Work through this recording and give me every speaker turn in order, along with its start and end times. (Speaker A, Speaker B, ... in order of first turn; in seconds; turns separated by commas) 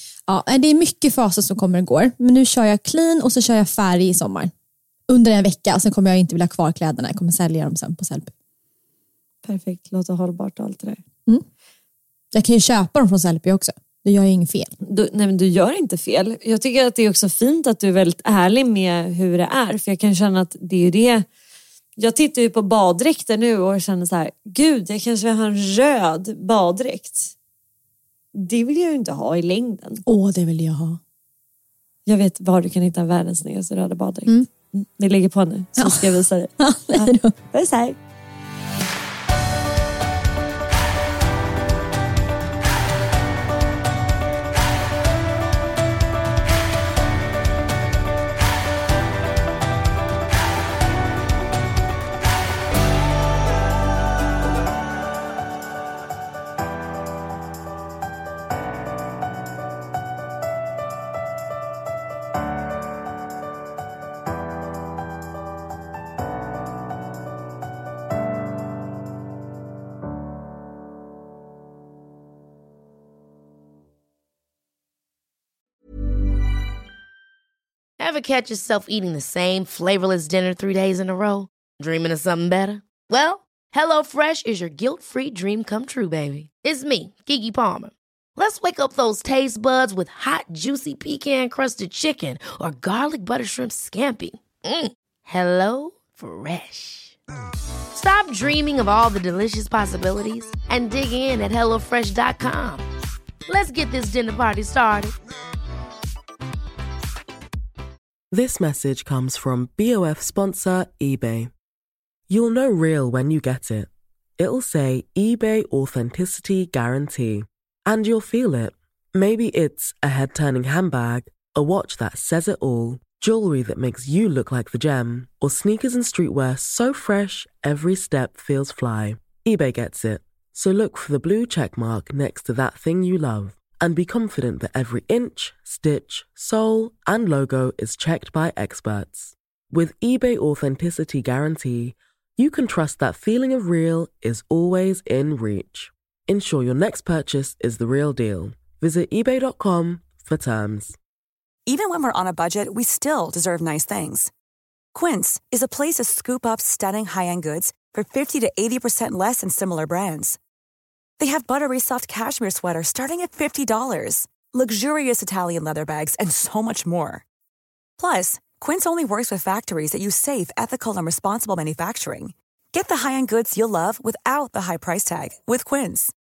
Speaker A: 0.3-4.5, Speaker A: 5.1-8.3, Speaker B: 9.4-11.0, Speaker A: 12.3-14.7, Speaker B: 14.8-21.2, Speaker B: 22.0-27.3, Speaker B: 28.3-30.0, Speaker A: 30.1-31.0, Speaker B: 32.0-38.0, Speaker A: 35.8-37.4, Speaker C: 78.0-97.1, Speaker C: 97.9-102.8, Speaker C: 103.5-105.1, Speaker D: 108.3-111.5, Speaker D: 112.3-151.0, Speaker E: 151.7-154.3, Speaker E: 154.9-160.4, Speaker E: 161.2-167.2, Speaker E: 168.0-176.1